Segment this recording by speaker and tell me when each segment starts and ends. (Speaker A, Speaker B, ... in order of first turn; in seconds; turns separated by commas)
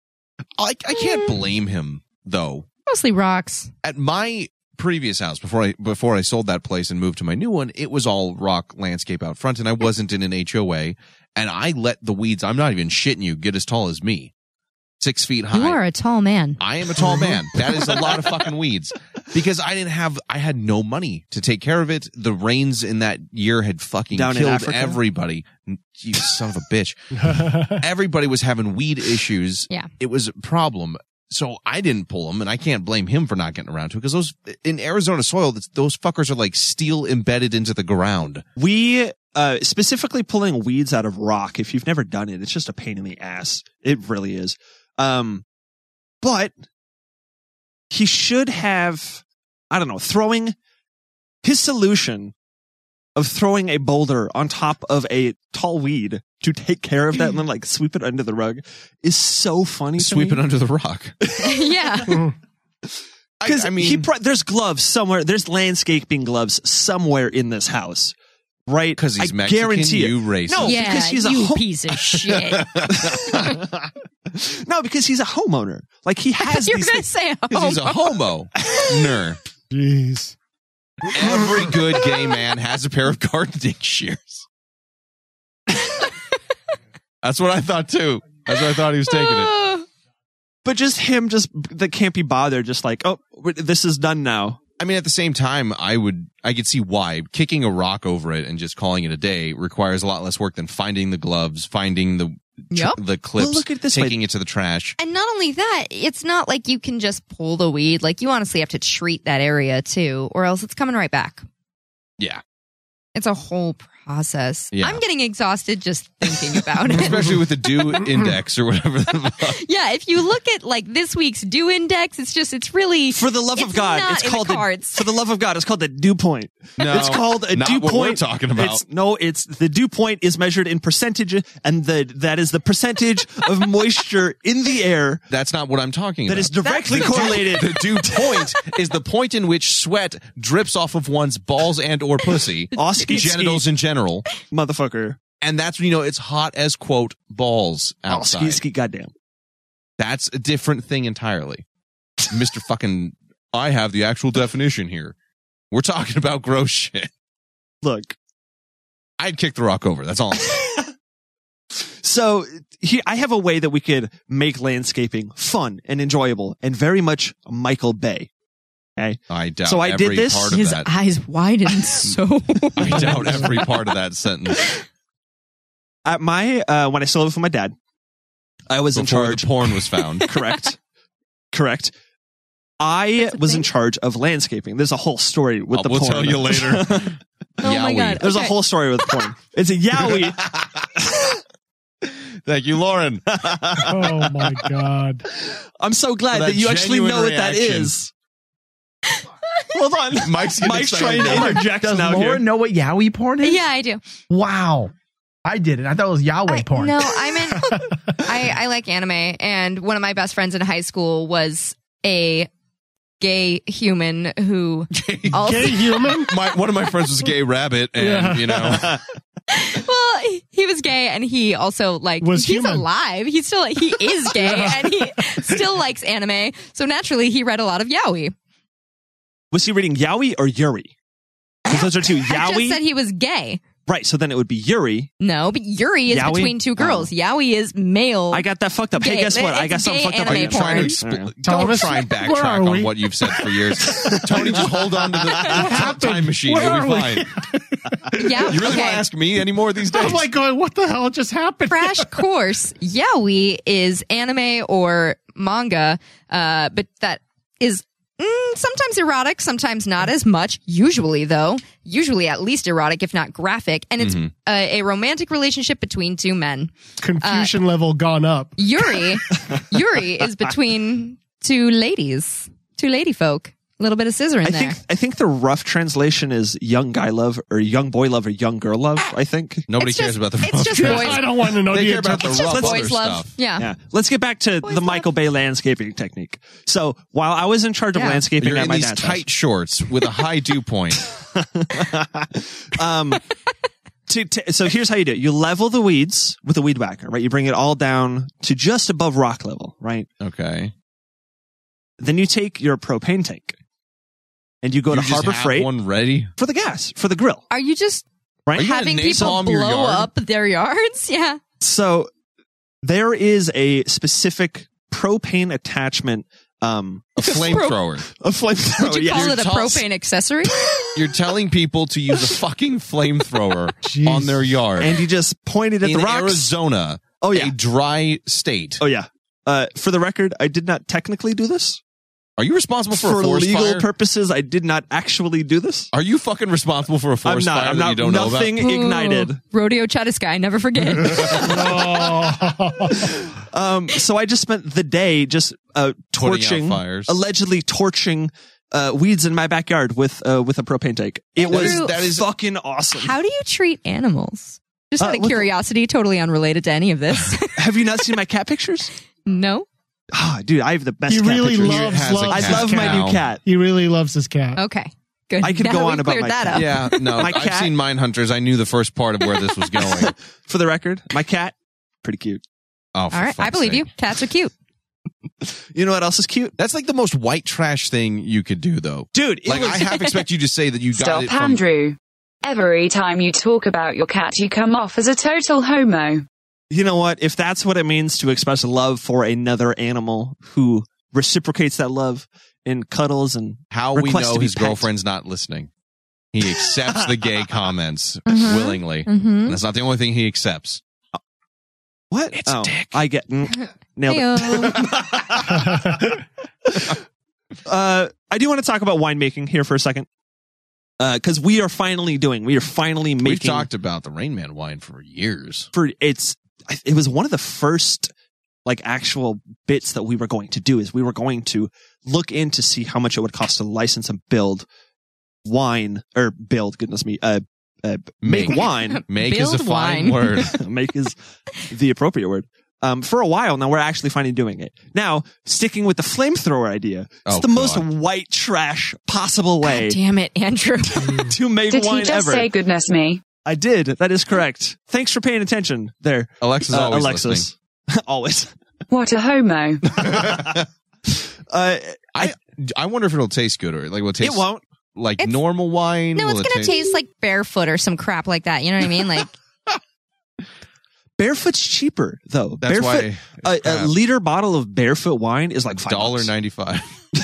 Speaker A: 0.6-2.6, Speaker B: 0.9-1.3, Speaker B: 2.9-3.7, Speaker A: 3.8-14.3, Speaker A: 15.0-15.8, Speaker B: 15.5-16.6, Speaker A: 16.6-27.0, Speaker C: 17.0-18.3, Speaker C: 24.1-25.0, Speaker D: 27.1-27.8, Speaker A: 27.7-38.4, Speaker C: 38.5-45.4, Speaker C: 46.2-46.6, Speaker C: 47.9-50.5, Speaker C: 51.4-52.3, Speaker C: 53.1-60.4, Speaker A: 60.0-61.1, Speaker B: 61.4-62.2, Speaker A: 63.4-64.1, Speaker C: 63.4-68.1, Speaker C: 68.7-71.7, Speaker A: 69.0-70.9, Speaker B: 70.6-72.7, Speaker A: 72.1-73.5, Speaker C: 72.9-73.7, Speaker C: 74.3-77.0, Speaker B: 76.4-78.1, Speaker A: 77.5-79.4, Speaker D: 79.7-80.3, Speaker A: 81.1-84.5, Speaker D: 81.2-81.7, Speaker A: 87.2-89.5, Speaker B: 89.1-89.8, Speaker C: 90.6-94.6, Speaker A: 94.8-105.0, Speaker B: 102.7-103.0, Speaker C: 103.4-104.2, Speaker B: 105.0-111.4, Speaker B: 113.1-117.4, Speaker A: 114.7-115.0, Speaker A: 116.8-119.6, Speaker D: 116.9-117.4, Speaker D: 118.0-118.3, Speaker B: 119.6-125.1, Speaker C: 123.1-135.2, Speaker A: 126.8-128.8, Speaker A: 135.3-144.3, Speaker C: 136.2-137.7, Speaker B: 136.6-137.8, Speaker B: 142.7-143.3, Speaker C: 142.7-143.7, Speaker C: 144.4-145.2, Speaker A: 145.4-148.6, Speaker C: 148.1-149.1, Speaker A: 150.0-151.6, Speaker A: 152.3-155.2, Speaker A: 155.7-157.1, Speaker C: 157.8-158.2, Speaker A: 159.2-160.8, Speaker C: 161.7-168.3, Speaker C: 169.0-170.6, Speaker A: 169.3-170.9, Speaker B: 170.5-173.7, Speaker A: 172.8-174.7, Speaker D: 173.2-173.4, Speaker C: 176.0-177.8, Speaker C: 178.7-179.5, Speaker A: 178.9-180.3, Speaker B: 180.2-180.6, Speaker C: 180.2-180.8, Speaker C: 181.5-181.9, Speaker C: 182.8-187.2, Speaker B: 183.2-183.7, Speaker A: 185.7-188.3, Speaker B: 187.6-189.3, Speaker C: 188.2-190.5, Speaker A: 189.9-191.0, Speaker A: 192.0-194.4, Speaker C: 193.3-193.6, Speaker D: 193.9-195.2, Speaker C: 195.3-198.1, Speaker A: 196.3-197.9, Speaker B: 199.2-199.6, Speaker C: 199.7-202.4, Speaker A: 200.1-201.7, Speaker E: 201.1-203.6, Speaker B: 203.4-204.0, Speaker E: 204.3-204.9, Speaker E: 205.4-207.4, Speaker B: 206.5-212.5, Speaker D: 207.6-207.9, Speaker B: 213.2-216.0, Speaker D: 215.3-216.4, Speaker A: 216.1-219.0, Speaker D: 218.0-218.8, Speaker B: 219.5-228.3, Speaker D: 222.2-222.9, Speaker D: 224.3-225.6, Speaker C: 229.5-230.9, Speaker C: 231.7-232.8, Speaker B: 231.7-233.6, Speaker C: 233.9-235.1, Speaker B: 235.2-241.0, Speaker C: 236.1-237.1, Speaker C: 238.3-241.3, Speaker A: 240.2-247.3, Speaker D: 241.4-243.7, Speaker C: 243.9-245.5, Speaker D: 245.4-248.7, Speaker B: 248.1-249.0, Speaker A: 248.4-250.3, Speaker D: 249.8-252.1, Speaker B: 251.7-267.5, Speaker A: 264.0-264.3, Speaker D: 267.0-268.6, Speaker B: 268.6-274.8, Speaker C: 269.4-269.8, Speaker C: 274.4-279.7, Speaker A: 279.7-283.3, Speaker B: 279.8-281.2, Speaker D: 280.7-282.5, Speaker B: 282.3-283.7, Speaker C: 282.4-282.9, Speaker C: 283.6-289.3, Speaker B: 284.6-285.1, Speaker B: 287.9-288.2, Speaker A: 288.4-291.0, Speaker C: 291.2-293.2, Speaker C: 294.1-300.1, Speaker A: 300.2-300.7, Speaker C: 302.0-303.6, Speaker C: 304.6-305.7, Speaker A: 304.9-306.3, Speaker C: 306.4-307.4, Speaker B: 307.5-311.4, Speaker C: 308.5-309.5, Speaker A: 308.6-310.1, Speaker C: 311.6-312.1, Speaker C: 312.8-319.3, Speaker A: 317.2-318.1, Speaker B: 317.2-317.8, Speaker B: 318.7-320.6, Speaker A: 318.9-319.8, Speaker A: 320.9-325.0, Speaker D: 323.8-324.5, Speaker C: 324.8-326.5, Speaker A: 325.8-328.8, Speaker C: 327.2-327.6, Speaker C: 328.8-331.8, Speaker A: 332.4-333.9, Speaker C: 332.9-335.9, Speaker A: 335.9-338.6, Speaker C: 337.2-339.4, Speaker B: 338.6-341.5, Speaker D: 341.1-343.1, Speaker C: 343.0-353.1, Speaker A: 346.1-347.2, Speaker B: 351.4-352.1, Speaker A: 351.4-352.3, Speaker B: 352.9-358.1, Speaker C: 355.0-355.5, Speaker C: 357.6-358.9, Speaker B: 359.2-359.7, Speaker C: 360.1-363.4, Speaker D: 361.1-364.6, Speaker A: 361.5-363.3, Speaker B: 364.6-367.3, Speaker C: 365.4-367.8, Speaker A: 366.5-370.1, Speaker C: 370.0-372.4, Speaker A: 372.9-373.9, Speaker B: 373.1-374.5, Speaker C: 375.4-376.6, Speaker A: 376.6-381.6, Speaker C: 379.1-380.1, Speaker B: 379.6-380.2, Speaker F: 380.9-386.2, Speaker C: 386.7-394.9, Speaker A: 393.7-395.7, Speaker A: 396.3-400.8, Speaker B: 398.3-399.6, Speaker C: 402.1-405.4, Speaker A: 402.4-402.9, Speaker B: 403.5-404.9, Speaker D: 405.5-406.1, Speaker C: 407.6-410.1, Speaker C: 411.0-413.7, Speaker A: 413.2-415.7, Speaker C: 415.7-418.1, Speaker C: 418.6-424.7, Speaker C: 425.4-429.0, Speaker A: 428.2-430.6, Speaker B: 428.5-430.5, Speaker C: 430.4-440.0, Speaker A: 437.2-437.9, Speaker B: 439.6-441.3, Speaker D: 441.0-441.3, Speaker C: 441.2-442.5, Speaker F: 441.7-443.2, Speaker C: 443.4-448.6, Speaker A: 446.4-447.5, Speaker F: 448.9-449.8, Speaker A: 449.9-450.6, Speaker C: 449.9-452.4, Speaker A: 452.1-456.8, Speaker C: 454.2-454.6, Speaker B: 456.1-459.3, Speaker C: 461.2-466.3, Speaker A: 462.6-464.0, Speaker A: 465.7-466.9